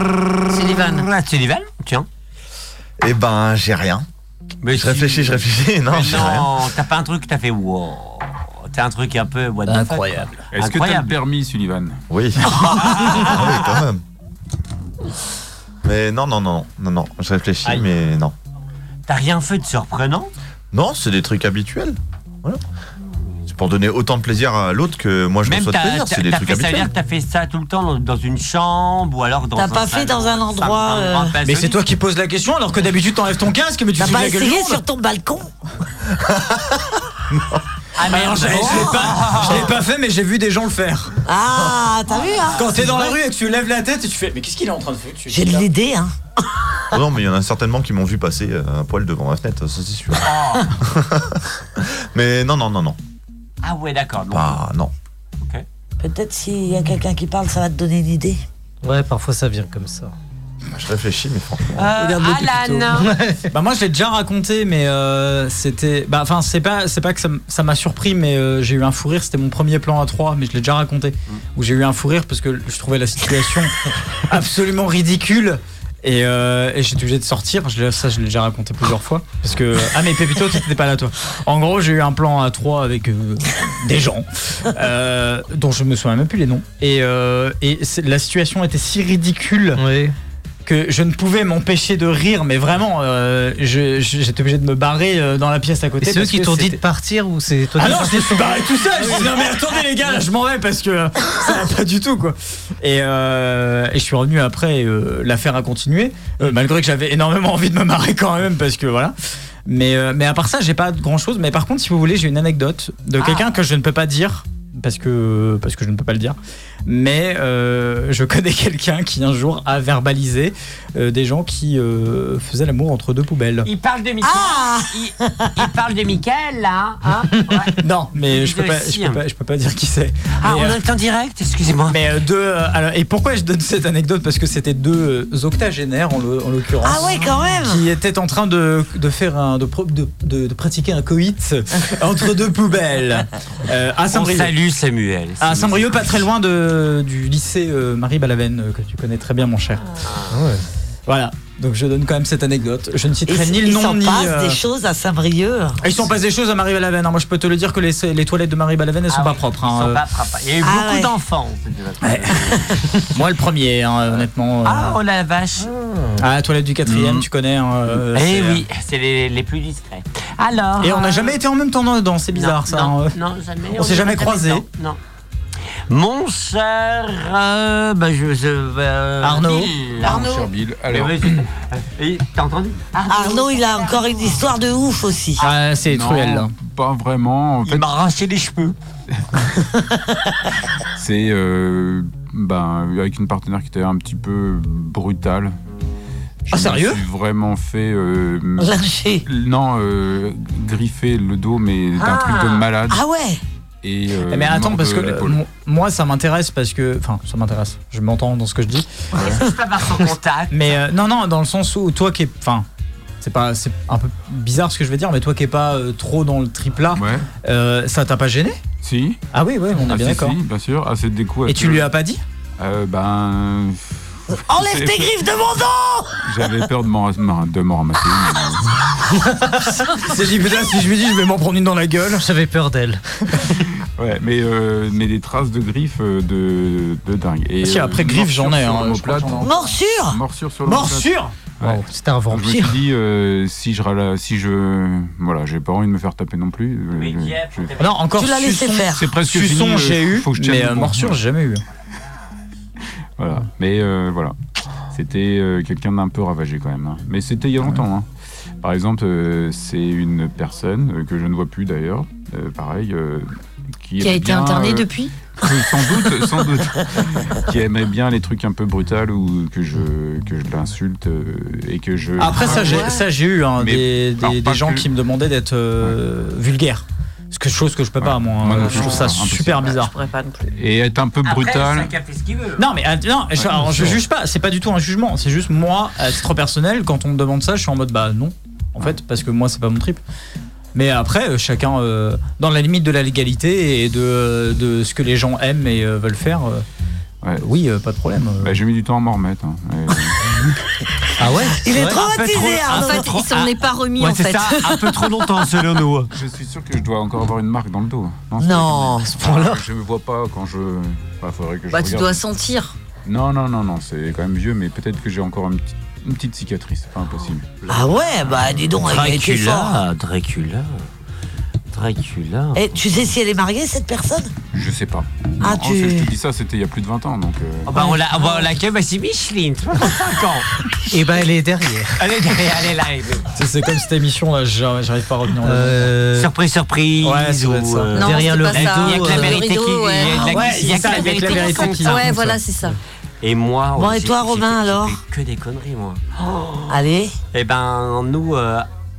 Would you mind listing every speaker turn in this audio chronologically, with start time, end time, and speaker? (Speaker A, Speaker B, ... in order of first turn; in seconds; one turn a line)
Speaker A: 0.5-1.1
Speaker B: 0.5-2.1
Speaker C: 3.0-4.0
Speaker B: 4.6-11.2
Speaker C: 4.7-6.5
Speaker D: 10.5-12.0
Speaker C: 12.1-14.0
Speaker B: 12.7-13.7
Speaker C: 15.8-18.3
Speaker B: 19.1-20.3
Speaker C: 20.7-22.6
Speaker C: 23.5-26.9
Speaker B: 25.4-31.8
Speaker E: 29.6-31.4
Speaker F: 31.4-34.8
Speaker E: 34.0-35.5
Speaker B: 38.0-39.7
Speaker F: 38.0-41.2
Speaker E: 41.3-43.2
Speaker F: 42.5-45.7
Speaker E: 45.3-46.1
Speaker C: 46.9-50.3
Speaker B: 50.2-50.7
Speaker C: 50.8-53.0
Speaker B: 53.6-54.6
Speaker C: 54.3-54.9
Speaker E: 56.0-58.4
Speaker G: 58.8-60.1
Speaker C: 60.7-61.9
Speaker B: 61.8-63.1
Speaker F: 62.0-62.9
Speaker G: 62.9-63.5
Speaker F: 63.5-89.8
Speaker G: 89.8-90.2
Speaker F: 90.7-96.8
Speaker G: 96.0-99.5
Speaker F: 97.8-109.2
Speaker F: 109.7-123.7
Speaker B: 123.6-129.2
Speaker E: 124.2-125.5
Speaker F: 127.8-130.8
Speaker B: 130.4-132.0
Speaker F: 131.9-144.5
Speaker E: 136.8-137.9
Speaker B: 144.1-146.1
Speaker F: 145.4-149.8
Speaker B: 150.0-150.4
Speaker G: 150.3-150.7
Speaker F: 151.1-154.6
Speaker E: 153.3-155.9
Speaker F: 155.8-160.0
Speaker B: 159.1-162.7
Speaker E: 160.6-161.1
Speaker F: 162.0-162.5
Speaker F: 163.1-165.0
Speaker B: 164.1-165.7
Speaker F: 166.2-168.6
Speaker D: 166.9-167.2
Speaker B: 168.1-171.4
Speaker F: 170.8-173.2
Speaker B: 172.3-175.0
Speaker F: 173.7-174.7
Speaker B: 175.9-184.3
Speaker F: 179.2-179.7
Speaker D: 180.0-181.4
Speaker E: 183.1-185.4
Speaker F: 185.4-186.5
Speaker D: 185.9-187.9
Speaker B: 187.7-188.8
Speaker D: 191.0-195.6
Speaker D: 196.5-203.0
Speaker F: 196.5-197.0
Speaker E: 198.6-199.3
Speaker B: 202.0-202.7
Speaker E: 202.9-203.4
Speaker D: 203.8-205.4
Speaker F: 204.3-209.3
Speaker B: 209.2-210.8
Speaker F: 210.5-212.7
Speaker F: 213.2-218.6
Speaker D: 216.9-217.3
Speaker D: 218.8-219.2
Speaker F: 219.3-220.4
Speaker D: 219.8-221.9
Speaker F: 221.5-222.2
Speaker D: 222.6-225.2
Speaker E: 224.5-226.2
Speaker D: 226.2-228.8
Speaker F: 229.9-232.3
Speaker G: 232.2-233.5
Speaker D: 234.0-247.7
Speaker F: 237.6-239.5
Speaker E: 239.4-240.2
Speaker F: 240.7-241.3
Speaker G: 241.6-242.8
Speaker B: 246.9-248.1
Speaker F: 247.8-251.6
Speaker E: 248.2-249.1
Speaker D: 248.9-251.2
Speaker D: 253.2-254.4
Speaker D: 254.9-258.1
Speaker D: 258.6-263.3
Speaker D: 263.8-273.0
Speaker A: 264.0-266.0
Speaker F: 272.2-279.9
Speaker A: 272.4-273.0
Speaker D: 273.6-274.9
Speaker D: 278.0-279.9
Speaker A: 278.6-279.1
Speaker A: 279.8-280.5
Speaker D: 280.5-281.9
Speaker B: 281.2-282.7
Speaker F: 282.6-290.0
Speaker D: 283.4-284.0
Speaker F: 290.7-296.6
Speaker F: 297.4-298.6
Speaker D: 298.4-300.3
Speaker G: 301.2-302.0
Speaker E: 301.5-303.1
Speaker B: 301.9-306.1
Speaker A: 302.7-305.4
Speaker D: 306.1-312.3
Speaker E: 308.4-309.5
Speaker G: 309.2-309.6
Speaker A: 311.7-312.8
Speaker D: 313.1-317.7
Speaker E: 317.7-319.8
Speaker D: 318.3-318.7
Speaker B: 318.8-320.8
Speaker B: 321.7-323.0
Speaker E: 322.6-324.3
Speaker D: 324.5-327.9
Speaker E: 325.4-326.1
Speaker B: 327.7-330.5
Speaker G: 330.9-332.0
Speaker B: 332.0-333.3
Speaker F: 333.4-336.0
Speaker G: 335.4-336.3
Speaker B: 336.1-342.1
Speaker F: 337.0-338.0
Speaker G: 337.9-339.4
Speaker A: 337.9-342.8
Speaker F: 340.2-342.4
Speaker B: 343.2-346.7
Speaker E: 343.8-345.0
Speaker E: 346.7-347.1
Speaker B: 347.3-348.7